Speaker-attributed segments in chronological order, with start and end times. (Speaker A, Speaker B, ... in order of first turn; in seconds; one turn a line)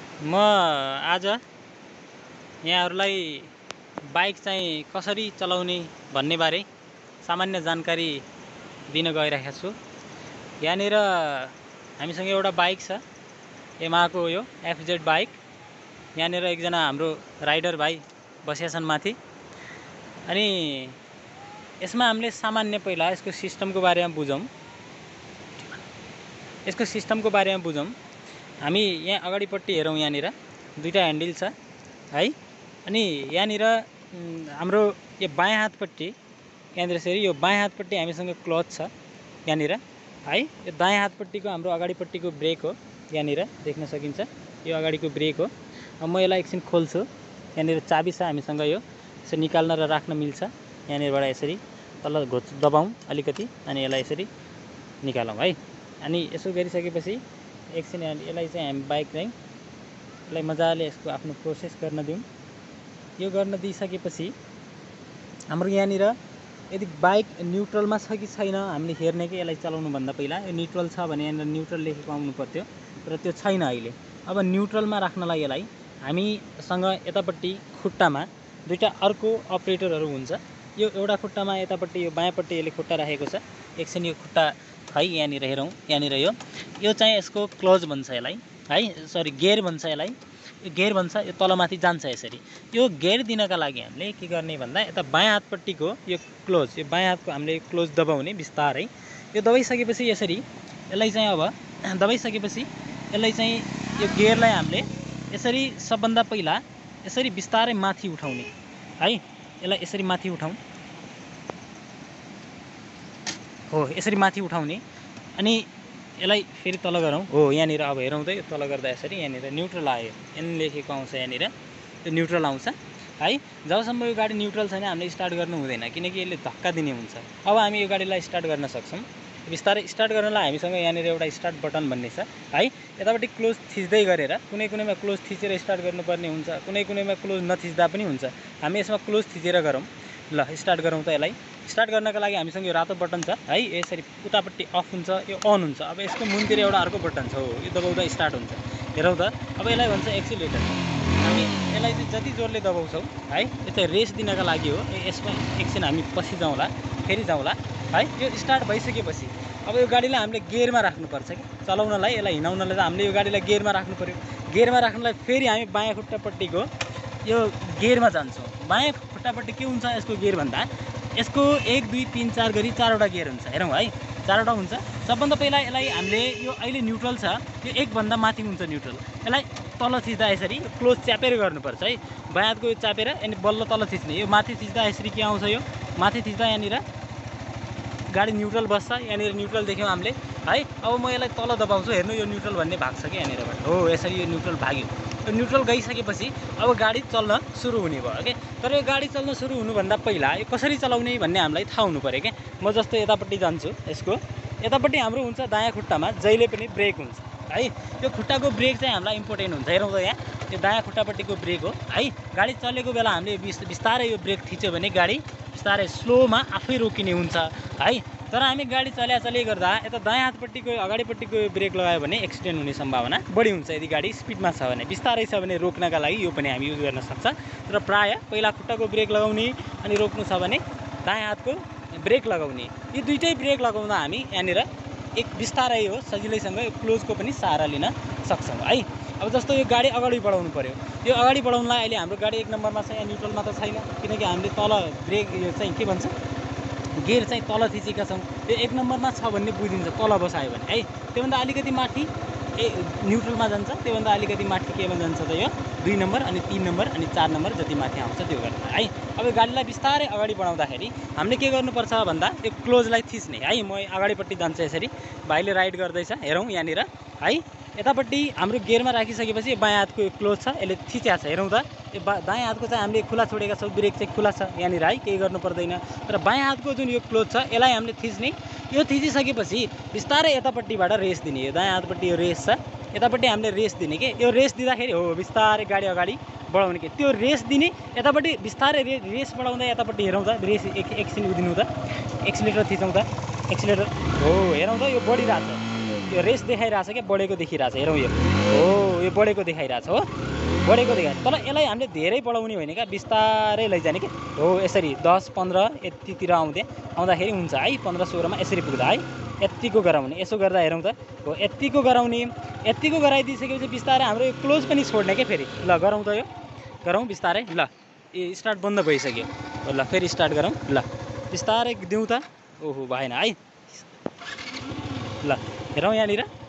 Speaker A: 0.2-1.4
Speaker A: 2.6-3.5
Speaker A: 4.0-6.7
Speaker A: 7.2-8.2
Speaker A: 8.9-9.7
Speaker A: 10.6-13.0
Speaker A: 13.8-15.4
Speaker A: 16.1-19.2
Speaker A: 20.2-21.0
Speaker A: 21.8-24.5
Speaker A: 26.6-27.9
Speaker A: 28.6-31.5
Speaker A: 32.9-36.1
Speaker A: 36.7-38.9
Speaker A: 39.5-54.3
Speaker A: 55.0-59.3
Speaker A: 60.3-62.2
Speaker A: 63.2-64.3
Speaker A: 65.5-66.1
Speaker A: 66.7-110.6
Speaker A: 113.7-114.8
Speaker A: 115.3-121.5
Speaker A: 122.0-166.7
Speaker A: 167.2-186.8
Speaker A: 188.1-246.1
Speaker A: 246.9-291.7
Speaker A: 292.2-300.1
Speaker A: 300.6-316.3
Speaker A: 316.8-323.8
Speaker A: 325.2-326.3